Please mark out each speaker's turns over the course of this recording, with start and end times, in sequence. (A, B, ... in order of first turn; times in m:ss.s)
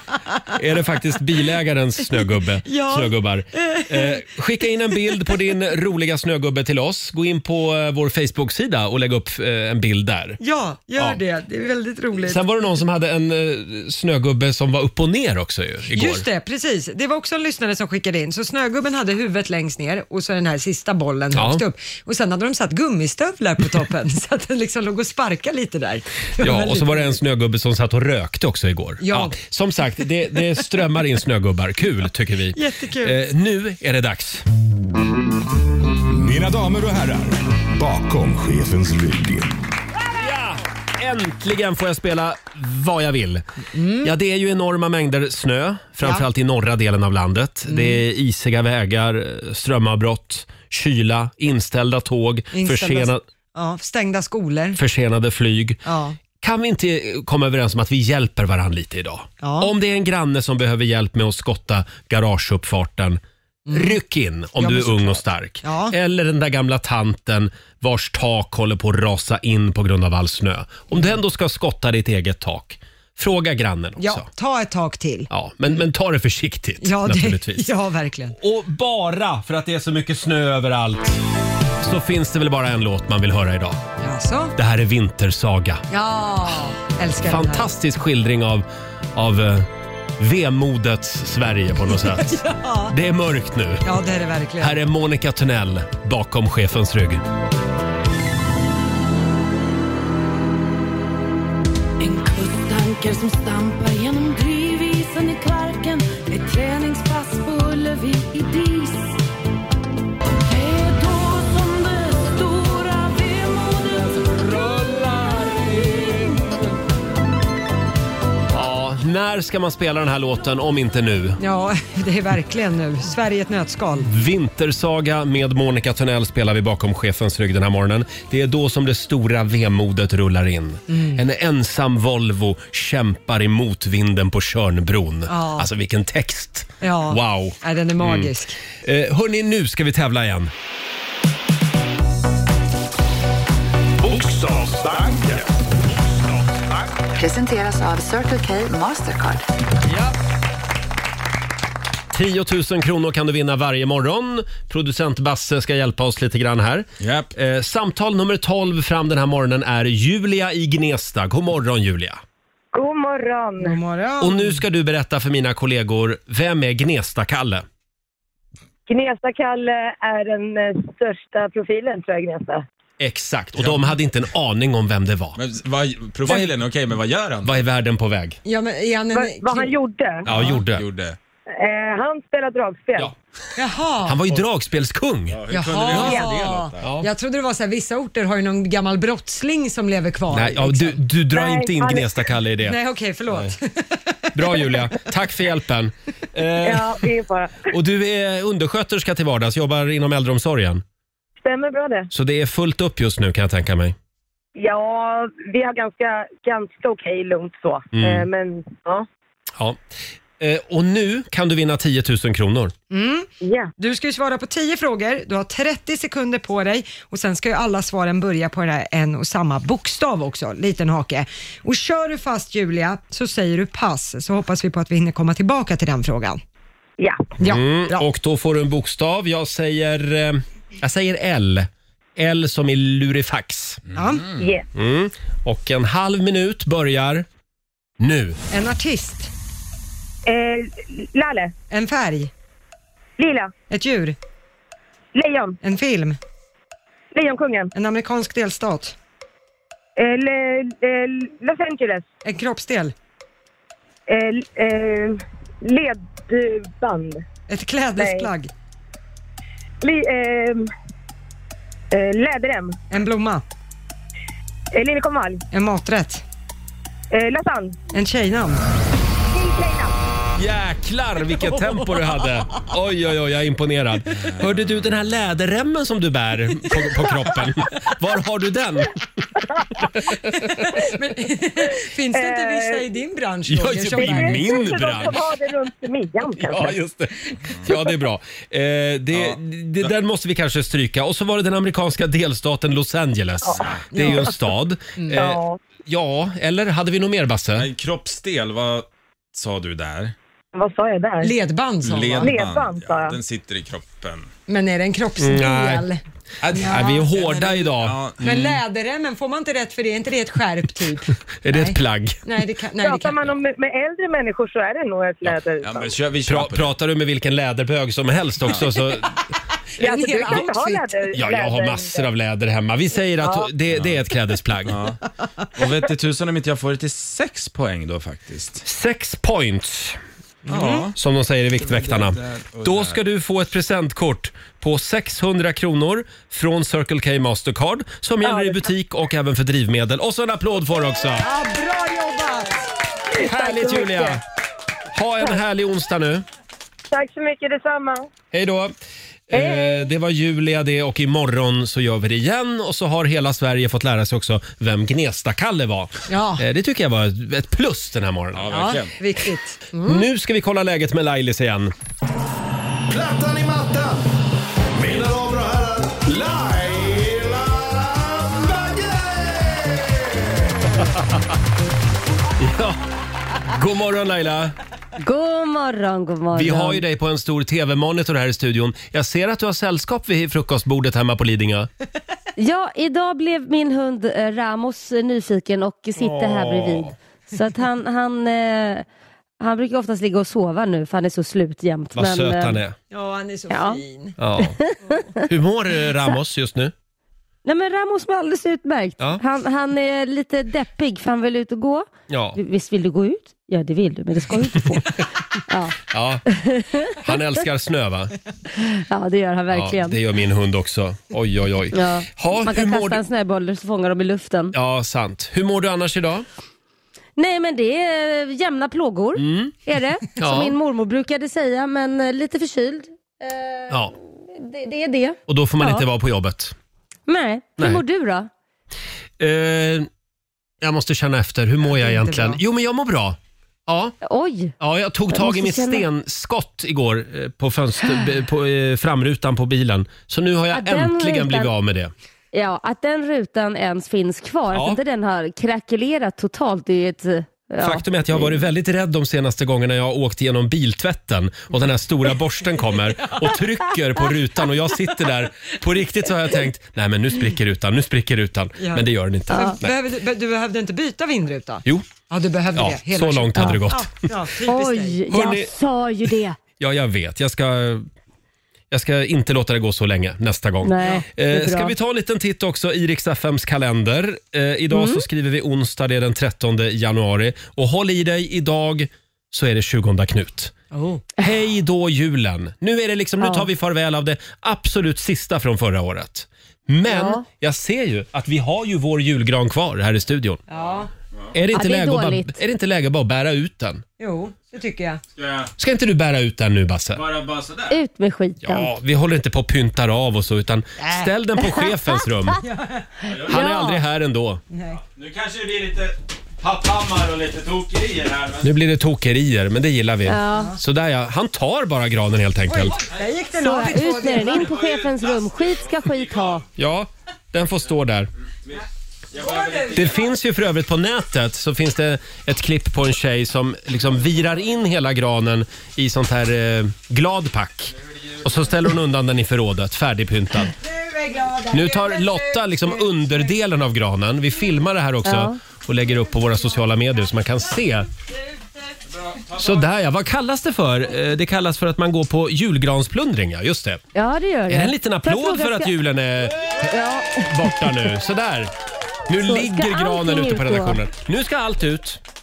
0:00.5-0:10.4 A
0:02.7-0:04.3 B
0:04.9-0:05.2 B
0:10.4-0:12.4 B
0:12.2-0:16.2 A
0:15.9-0:27.2 B
0:21.3-0:21.6 A
0:26.4-0:34.4 A
0:29.0-0:29.4 B
0:32.5-0:33.2 B
0:36.1-0:39.6 C
0:40.0-0:43.4 A
0:43.7-0:44.1 B
0:44.0-0:53.2 A
0:47.7-0:48.0 B
0:52.5-0:54.8 B
0:54.8-0:55.8 A
0:55.8-0:56.2 B
0:56.4-1:03.2 A
0:59.4-0:59.7 B
1:03.7-1:04.0 B
1:03.7-1:14.3 A
1:04.6-1:06.0 B
1:14.0-1:15.3 B
1:15.3-1:17.7 A
1:16.8-1:18.4 B
1:18.4-1:21.2 A
1:21.8-1:23.8 A
1:24.0-1:24.5 B
1:24.6-1:25.8 A
1:25.9-1:27.7 B
1:27.2-1:32.4 A
1:32.0-1:32.9 B
1:32.9-1:33.9 A
1:33.8-1:34.8 B
1:34.6-1:37.2 A
1:42.0-1:49.2 D
1:50.4-1:56.4 D
1:58.5-2:01.4 A
2:01.4-2:04.1 B
2:04.0-2:18.3 A
2:10.9-2:11.2 B
2:15.3-2:15.7 B
2:16.8-2:18.6 B
2:18.8-2:20.5 A
2:24.0-2:25.5 C
2:26.1-2:26.8 C
2:27.1-2:29.4 E
2:32.1-2:42.2 A
2:37.0-2:37.3 F
2:42.7-2:43.8 G
2:43.6-2:44.6 B
2:44.2-2:47.6 A
2:48.9-2:52.6 G
2:53.0-2:55.4 A
2:53.6-2:53.9 F
2:55.4-2:57.6 F
2:56.3-2:56.5 A
2:57.4-2:58.4 A
2:58.4-2:59.7 B
2:59.1-3:00.3 G
3:00.2-3:00.8 A
3:00.3-3:01.2 F
3:01.5-3:03.1 G
3:03.6-3:04.2 B
3:04.0-3:06.2 A
3:05.3-3:06.9 F
3:05.5-3:11.0 B
3:05.9-3:06.6 G
3:06.8-3:07.1 A
3:10.3-3:12.8 A
3:11.3-3:12.1 G
3:12.6-3:14.8 B
3:13.3-3:13.5 A
3:14.3-3:17.0 A
3:16.6-3:17.7 G
3:17.7-3:20.8 A
3:21.4-3:22.1 G
3:22.1-3:24.0 A
3:24.6-3:29.0 G
3:27.9-3:28.3 A
3:30.4-3:32.7 A
3:32.9-3:46.4 B
3:33.4-3:33.7 G
3:47.0-3:47.3 G
3:47.4-3:48.0 B
3:47.4-3:53.8 A
3:53.9-3:54.4 F
3:54.0-3:54.3 B
3:54.4-3:54.6 G
3:54.7-3:57.2 A
3:58.0-3:58.4 A
3:58.5-3:59.3 B
4:00.2-4:01.5 G
4:01.7-4:02.3 B
4:03.2-4:03.5 G
4:03.7-4:04.2 B
4:05.1-4:05.6 G
4:05.6-4:06.2 B
4:07.1-4:07.7 G
4:07.7-4:08.9 B
4:10.0-4:12.1 G
4:12.2-4:12.9 B
4:14.1-4:17.2 G
4:17.5-4:18.5 B
4:18.0-4:18.3 G
4:19.8-4:20.7 G
4:21.9-4:22.8 G
4:22.9-4:23.4 B
4:24.7-4:25.4 G
4:25.5-4:26.2 B
4:27.1-4:27.8 G
4:27.9-4:28.6 B
4:29.3-4:29.9 G
4:30.4-4:39.1 A
4:34.2-4:34.5 F
4:39.8-4:40.8 A
4:40.4-4:44.5 B
4:42.1-4:42.8 G
4:43.5-4:45.2 A
4:43.9-4:46.8 G
4:46.3-4:57.7 A
4:49.1-4:49.4 F
4:53.4-4:54.3 G
4:53.6-4:53.9 F
4:53.9-4:54.3 B
4:55.0-4:55.3 B
4:55.1-4:55.6 G
4:57.6-5:00.1 F
5:00.5-5:01.3 G
5:01.2-5:02.3 B
5:01.8-5:04.3 F
5:02.2-5:03.2 G
5:04.5-5:06.0 B
5:05.2-5:05.8 A
5:06.4-5:08.2 F
5:06.5-5:08.6 A
5:06.5-5:07.6 B
5:08.2-5:13.3 B
5:11.4-5:12.2 A
5:12.8-5:16.0 G
5:15.2-5:16.7 F
5:16.2-5:19.2 A
5:19.7-5:21.0 B
5:19.8-5:22.0 G
5:21.1-5:24.8 A
5:23.2-5:23.5 G
5:23.7-5:24.0 F
5:24.6-5:25.0 F
5:25.5-5:28.6 F
5:28.6-5:30.0 A
5:30.5-5:30.9 B
5:30.5-5:30.9 F
5:30.9-5:41.3 A
5:31.6-5:33.0 F
5:38.2-5:38.6 G
5:41.2-5:42.7 B
5:43.1-5:44.2 G
5:43.1-5:44.2 A
5:44.9-5:46.2 A
5:46.9-5:48.1 G
5:48.3-5:48.7 A
5:49.3-5:58.8 A
5:49.3-5:49.8 G
5:56.1-5:56.4 B
5:58.3-5:59.0 F
5:58.5-6:00.0 B
5:59.8-6:01.7 A
6:02.9-6:04.0 C
6:04.8-6:10.1 C
6:12.4-6:12.8 A
6:13.4-6:14.6 A
6:15.0-6:16.8 H
6:16.3-6:21.7 A
6:22.4-6:28.8 H
6:26.0-6:26.9 A
6:29.4-6:32.6 H
6:31.9-6:32.8 A
6:32.9-6:34.2 B
6:33.5-6:33.8 H
6:34.2-6:34.6 A
6:34.4-6:35.2 H
6:35.2-6:36.7 A
6:37.4-6:45.8 H
6:42.1-6:42.4 A
6:45.9-6:46.2 A
6:46.3-6:47.1 H
6:46.9-6:48.1 A
6:48.5-6:50.0 H
6:49.5-6:53.0 A
6:51.7-6:54.5 H
6:54.5-6:56.2 A
6:57.2-7:05.8 H
6:59.2-6:59.6 A
7:00.2-7:00.5 A
7:05.3-7:06.5 A
7:07.1-7:08.3 H
7:09.2-7:09.9 A
7:10.6-7:13.9 A
7:11.7-7:12.4 B
7:14.0-7:14.5 H
7:14.6-7:21.9 A
7:15.1-7:15.8 H
7:20.5-7:21.5 H
7:22.3-7:28.3 H
7:24.5-7:24.8 A
7:27.6-7:39.8 A
7:38.6-7:45.0 B
7:39.3-7:39.6 H
7:41.6-7:41.9 A
7:42.5-7:44.1 A
7:44.4-7:46.4 H
7:45.1-7:45.5 A
7:46.6-7:47.9 A
7:48.7-8:00.5 A
7:50.6-7:51.7 H
7:54.7-7:55.0 H
8:00.7-8:01.0 B
8:01.2-8:10.4 A
8:03.2-8:03.5 H
8:06.8-8:07.2 H
8:10.5-8:10.9 B
8:10.6-8:11.3 F
8:11.3-8:13.8 A
8:11.5-8:12.4 H
8:14.0-8:15.0 B
8:15.2-8:15.5 F
8:15.6-8:17.0 A
8:16.9-8:17.8 F
8:17.7-8:18.7 H
8:18.4-8:22.4 A
8:20.8-8:21.1 B
8:22.4-8:22.9 B
8:23.2-8:24.4 A
8:23.2-8:23.8 H
8:24.5-8:24.8 B
8:24.8-8:28.5 F
8:28.4-8:32.8 A
8:30.0-8:30.5 H
8:30.3-8:30.6 B
8:32.5-8:34.5 B
8:33.4-8:36.4 H
8:34.3-8:36.4 F
8:36.6-8:38.1 A
8:38.4-8:40.0 F
8:39.1-8:40.0 B
8:39.7-8:50.5 A
8:50.6-8:53.3 B
8:51.5-8:57.9 A
8:55.0-8:55.4 H
8:59.0-8:59.6 F
8:59.3-9:03.8 A
9:03.9-9:05.7 H
9:04.5-9:08.5 A
9:06.7-9:07.7 H
9:09.1-9:12.0 A
9:09.2-9:10.8 H